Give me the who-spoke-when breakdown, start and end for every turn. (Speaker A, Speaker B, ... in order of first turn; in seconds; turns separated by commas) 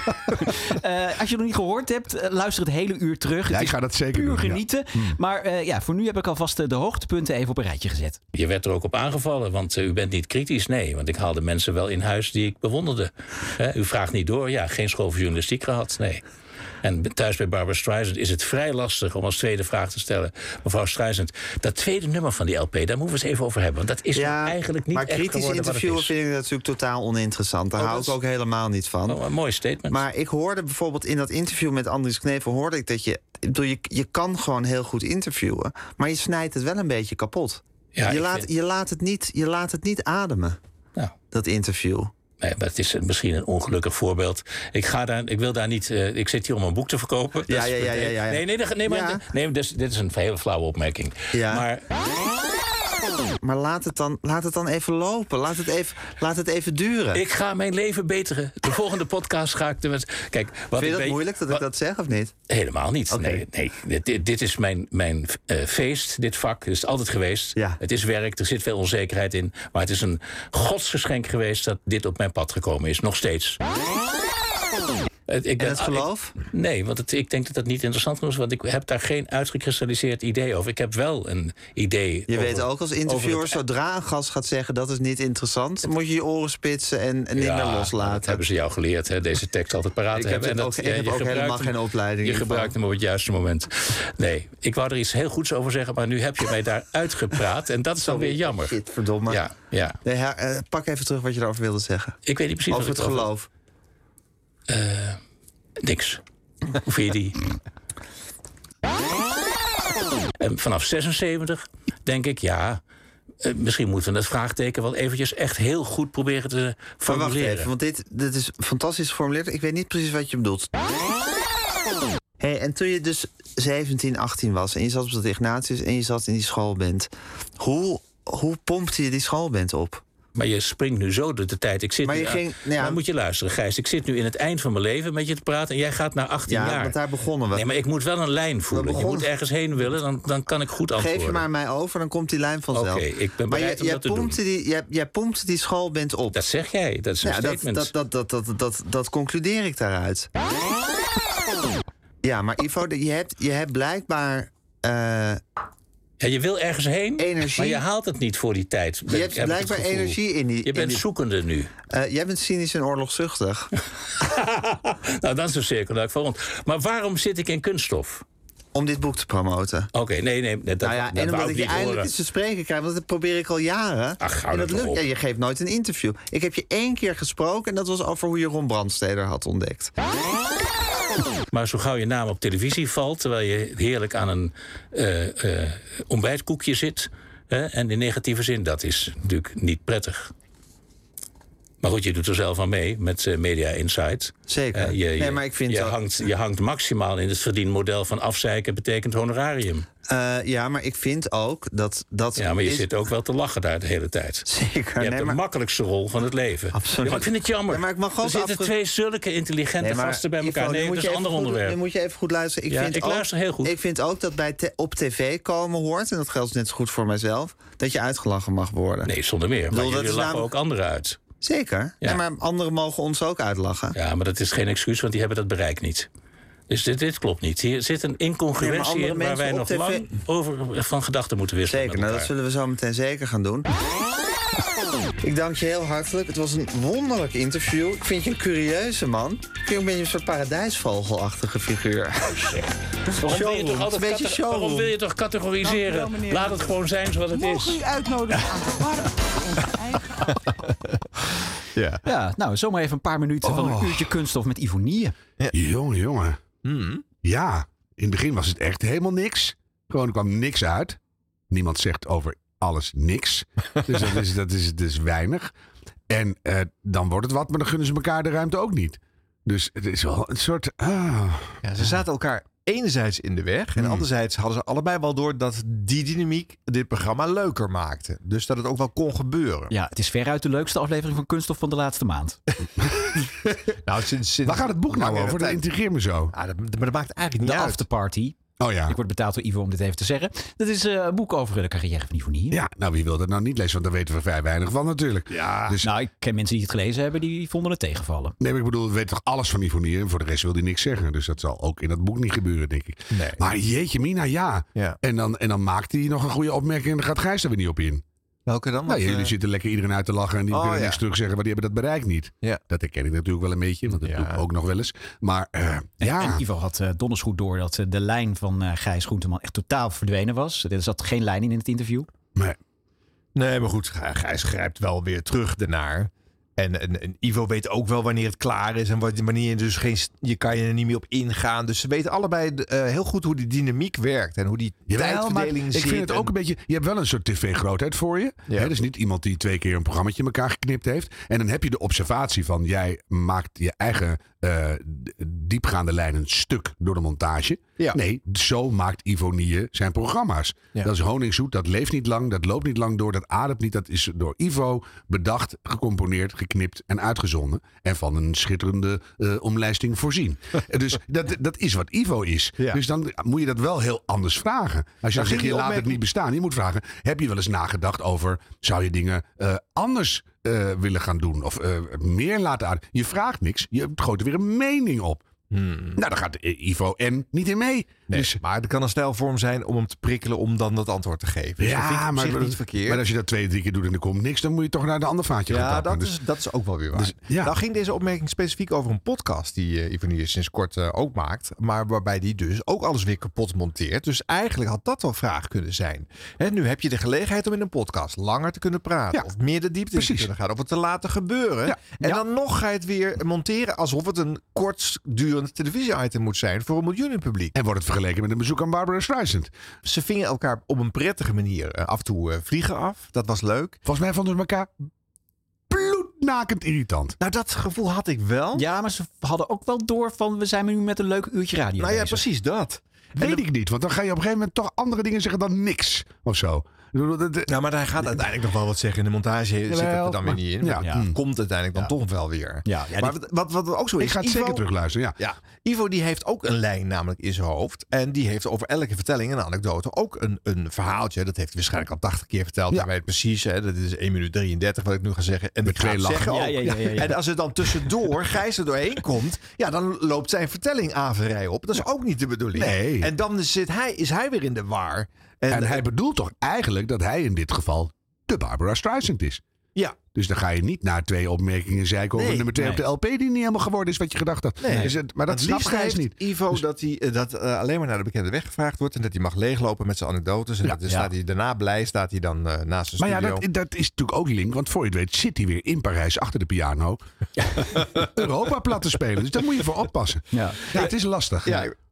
Speaker A: 0.4-8.2, Speaker B: 3.5-4.6, Speaker C: 8.3-16.2, Speaker C: 16.8-26.1, Speaker D: 24.1-29.2, Speaker C: 27.8-28.2, Speaker C: 29.1-30.0, Speaker D: 29.9-40.6, Speaker C: 37.9-38.5, Speaker D: 41.3-42.1, Speaker C: 42.4-51.8, Speaker D: 47.5-49.2, Speaker D: 51.3-51.6, Speaker D: 53.4-57.2, Speaker C: 57.1-61.6, Speaker D: 60.8-62.3, Speaker C: 62.5-73.6, Speaker D: 63.1-63.4, Speaker C: 75.3-83.6, Speaker D: 75.6-76.3, Speaker D: 82.3-88.4, Speaker C: 87.3-98.7, Speaker D: 90.2-92.7, Speaker D: 98.0-99.5, Speaker C: 99.3-100.0, Speaker D: 100.0-102.2, Speaker C: 102.2-103.3, Speaker D: 102.7-103.5, Speaker C: 104.7-105.2, Speaker C: 105.8-106.2, Speaker C: 106.8-107.4, Speaker C: 110.4-112.8, Speaker C: 113.4-117.7, Speaker D: 117.0-120.7, Speaker D: 122.4-130.0, Speaker C: 130.3-137.0, Speaker D: 132.0-133.0, Speaker D: 136.5-137.8, Speaker C: 137.5-141.5, Speaker D: 138.7-139.3, Speaker D: 141.0-146.4, Speaker C: 142.7-144.4, Speaker C: 146.3-147.9, Speaker D: 147.2-150.3, Speaker D: 152.2-155.4, Speaker C: 156.2-161.7, Speaker D: 157.2-157.8, Speaker D: 159.1-161.0, Speaker D: 161.9-163.7, Speaker C: 164.2-168.2, Speaker D: 168.7-169.9, Speaker C: 169.9-172.1, Speaker D: 170.8-179.9, Speaker C: 174.2-175.0, Speaker C: 181.5-190.3, Speaker C: 191.8-199.8, Speaker D: 194.5-195.9, Speaker D: 200.1-202.9, Speaker C: 202.4-204.5, Speaker D: 204.5-205.4, Speaker C: 205.0-211.8, Speaker D: 206.7-208.7, Speaker D: 209.8-219.1, Speaker C: 212.7-213.7, Speaker C: 219.0-221.2, Speaker D: 219.7-220.5, Speaker D: 221.4-224.0, Speaker C: 223.9-226.1, Speaker C: 226.7-232.3, Speaker D: 228.6-230.0, Speaker D: 231.7-233.7, Speaker D: 235.2-242.5, Speaker C: 243.2-247.8, Speaker D: 243.2-244.9, Speaker E: 245.7-246.4, Speaker E: 247.4-248.9, Speaker F: 251.7-252.0, Speaker A: 252.0-255.1, Speaker B: 253.4-254.1, Speaker B: 255.5-256.4, Speaker F: 256.6-257.0, Speaker B: 257.2-261.0, Speaker B: 261.5-265.5, Speaker B: 266.1-271.6, Speaker F: 271.6-279.7, Speaker B: 273.8-274.1, Speaker A: 279.7-282.4, Speaker F: 283.9-285.6, Speaker B: 284.5-286.3, Speaker F: 286.3-287.8, Speaker A: 287.4-292.6, Speaker B: 288.6-289.0, Speaker B: 292.5-295.9, Speaker F: 295.4-295.8, Speaker A: 295.8-298.4, Speaker B: 298.4-308.0, Speaker F: 303.1-303.4, Speaker F: 308.5-309.3, Speaker B: 308.9-316.4, Speaker F: 310.5-311.0, Speaker F: 313.9-314.4, Speaker A: 316.0-322.1, Speaker F: 323.4-336.3, Speaker B: 334.9-375.2, Speaker F: 365.1-366.0, Speaker F: 375.5-376.0, Speaker B: 376.0-378.4, Speaker F: 378.1-383.0, Speaker B: 381.6-386.1, Speaker F: 385.5-407.5, Speaker B: 386.9-387.5, Speaker B: 399.9-400.3, Speaker B: 407.5-409.5, Speaker F: 409.8-413.8, Speaker B: 413.8-414.7, Speaker B: 415.7-417.1, Speaker F: 417.2-418.6, Speaker A: 418.5-422.2, Speaker F: 421.8-423.4, Speaker B: 423.2-427.5, Speaker F: 427.5-434.6, Speaker B: 429.7-431.1, Speaker A: 430.8-431.1, Speaker A: 432.6-433.2, Speaker B: 434.0-435.2, Speaker F: 435.2-455.8, Speaker B: 445.6-447.0, Speaker A: 446.3-447.2, Speaker B: 452.6-453.1, Speaker B: 455.5-459.4, Speaker B: 460.1-466.6, Speaker F: 462.1-462.5, Speaker A: 462.6-462.8, Speaker F: 464.6-473.4, Speaker A: 464.6-464.9, Speaker B: 473.0-477.0, Speaker B: 477.6-481.7, Speaker A: 480.3-480.9, Speaker F: 481.4-481.7